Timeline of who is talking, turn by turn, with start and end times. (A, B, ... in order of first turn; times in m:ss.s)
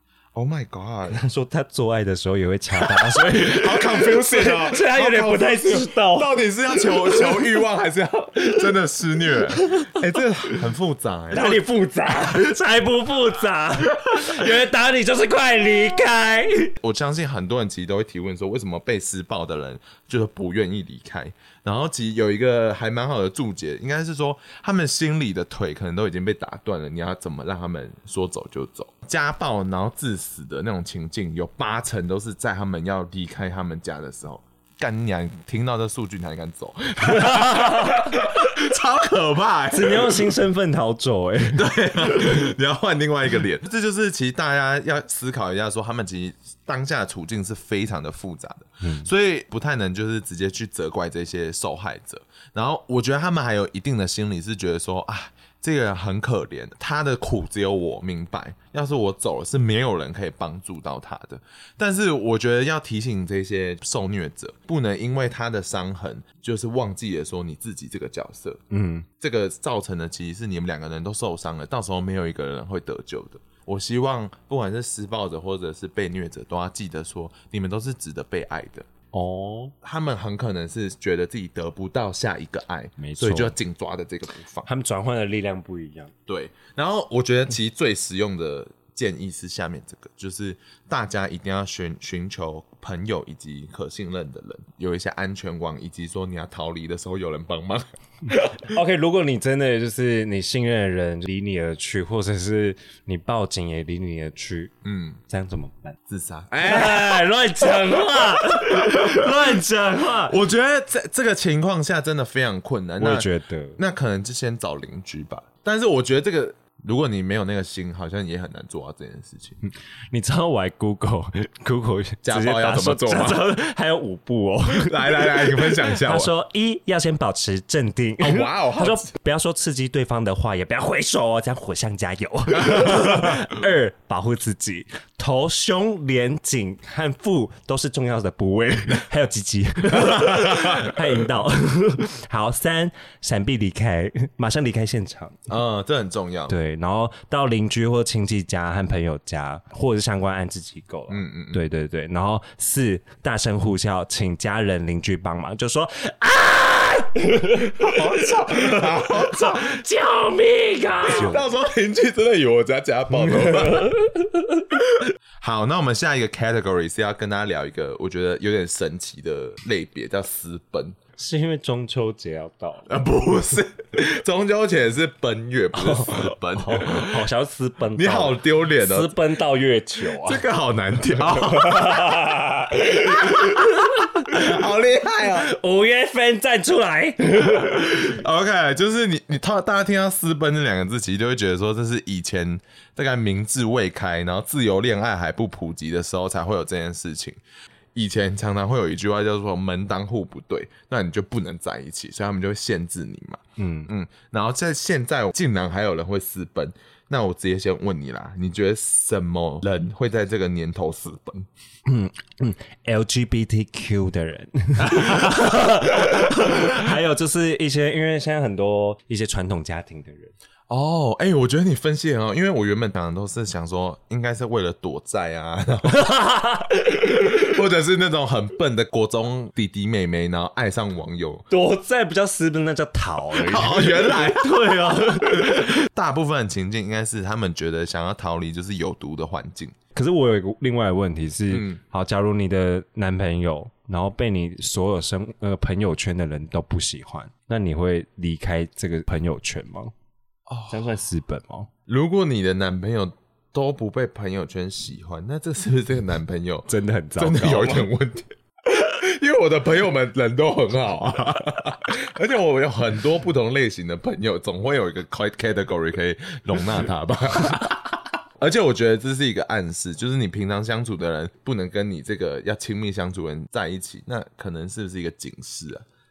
0:00.3-0:01.2 A
0:01.1-0:07.5 B
0:02.8-0:11.6 A
0:09.6-0:09.9 B
0:11.3-0:16.7 B
0:12.2-0:12.5 A
0:16.8-0:40.3 A
0:37.0-0:38.1 B
0:39.7-0:42.4 B
0:41.5-1:08.6 A
0:48.8-0:49.1 B
1:08.7-1:09.1 B
1:09.2-1:18.9 A
1:19.1-1:19.7 B
1:19.8-1:24.7 A
1:23.0-1:23.6 B
1:24.7-1:26.1 B
1:26.3-1:38.6 A
1:38.6-1:44.7 B
1:44.8-1:45.2 A
1:45.3-1:46.0 B
1:46.1-1:47.2 A
1:46.6-1:50.4 B
1:48.5-1:49.3 A
1:50.3-1:59.6 A
1:53.0-1:53.8 B
1:59.6-2:25.5 B
2:02.2-2:03.4 A
2:04.7-2:06.3 A
2:08.2-2:09.1 A
2:12.6-2:13.4 A
2:19.9-2:21.0 A
2:25.5-2:26.6 A
2:26.5-2:41.5 B
2:31.1-2:31.6 A
2:37.7-2:39.8 A
2:41.0-2:44.0 A
2:43.2-2:44.3 B
2:45.0-2:51.0 A
2:51.2-2:52.9 B
2:52.9-2:57.3 A
2:55.8-3:00.4 B
2:58.0-2:59.2 A
3:00.2-3:02.2 A
3:01.2-3:04.5 B
3:02.8-3:05.5 A
3:05.2-3:08.1 B
3:07.5-3:17.4 A
3:17.9-3:31.5 A
3:23.6-3:23.9 B
3:31.9-3:40.3 B
3:34.8-3:36.8 A
3:40.7-3:46.1 A
3:45.9-3:46.7 B
3:46.7-3:51.5 A
3:51.5-3:55.8 B
3:53.3-3:59.8 A
4:00.0-4:09.9 B
4:01.5-4:01.8 A
4:10.5-4:10.9 A
4:10.7-4:11.7 B
4:11.9-4:35.9 A
4:16.7-4:17.9 B